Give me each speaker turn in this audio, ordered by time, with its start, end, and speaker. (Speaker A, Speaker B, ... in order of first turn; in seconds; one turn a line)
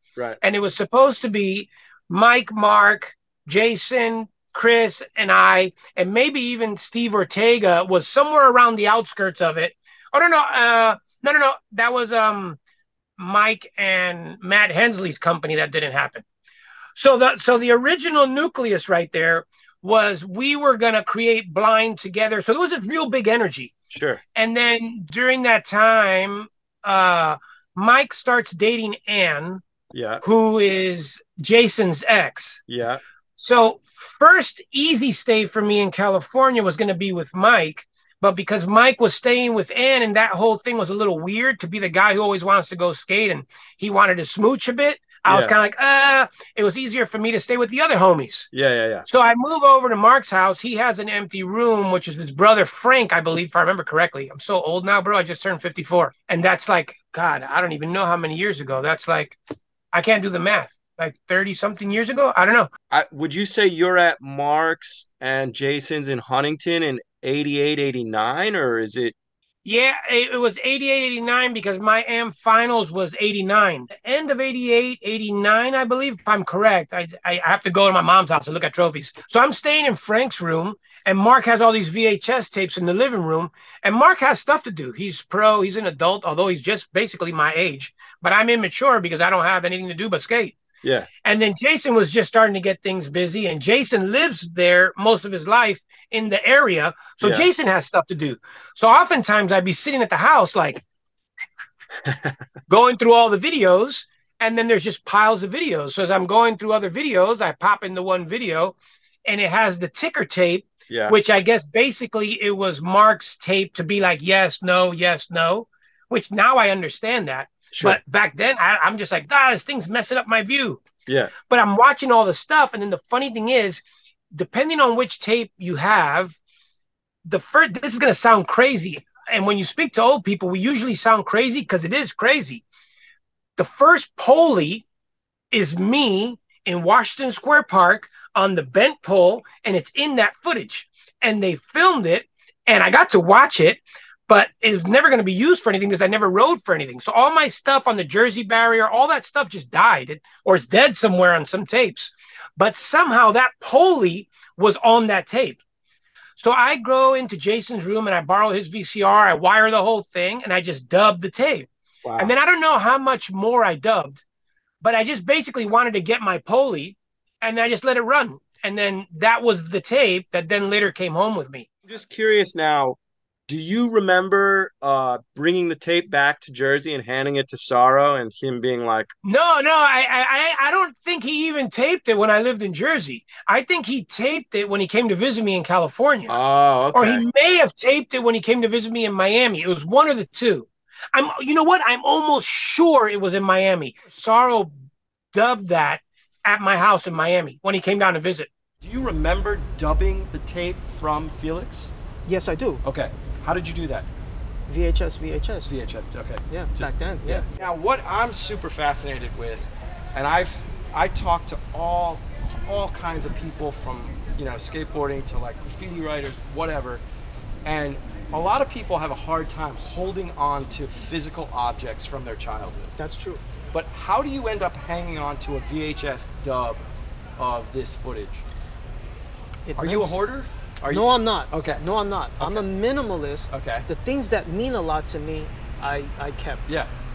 Speaker A: 0.4-12.6
Speaker A: 13.2-16.2
Speaker A: 16.9-23.7
Speaker B: 23.9-24.2
Speaker A: 24.3-29.6
Speaker B: 29.9-30.2
Speaker A: 30.2-32.6
Speaker B: 32.7-33.0
Speaker A: 33.4-48.5
Speaker B: 45.2-45.5
Speaker B: 48.5-49.1
Speaker A: 49.1-59.4
Speaker A: 59.9-62.7
Speaker B: 62.9-69.1
Speaker A: 69.6-90.6
Speaker B: 90.8-91.1
Speaker A: 91.2-100.8
Speaker B: 97.2-97.5
Speaker B: 102.0-102.4
Speaker A: 102.7-120.8
Speaker B: 110.9-111.2
Speaker B: 117.7-118.0
Speaker B: 121.1-121.3
Speaker A: 121.5-123.8
Speaker A: 124.3-126.4
Speaker A: 127.2-132.6
Speaker A: 133.6-134.8
Speaker A: 135.5-155.6
Speaker A: 156.4-164.2
Speaker B: 162.0-162.3
Speaker A: 164.8-171.7
Speaker B: 171.8-179.1
Speaker A: 179.2-186.3
Speaker B: 186.3-187.2
Speaker A: 186.9-194.7
Speaker A: 195.3-198.5
Speaker B: 198.8-201.9
Speaker C: 202.3-202.8
Speaker B: 202.8-204.1
Speaker C: 204.7-205.7
Speaker B: 205.7-217.0
Speaker C: 206.5-207.4
Speaker B: 217.6-222.9
Speaker C: 223.0-223.4
Speaker B: 223.7-226.8
Speaker B: 227.4-228.4
Speaker C: 229.7-230.2
Speaker B: 229.8-231.9
Speaker C: 230.9-236.7
Speaker B: 232.4-232.7
Speaker B: 233.5-233.8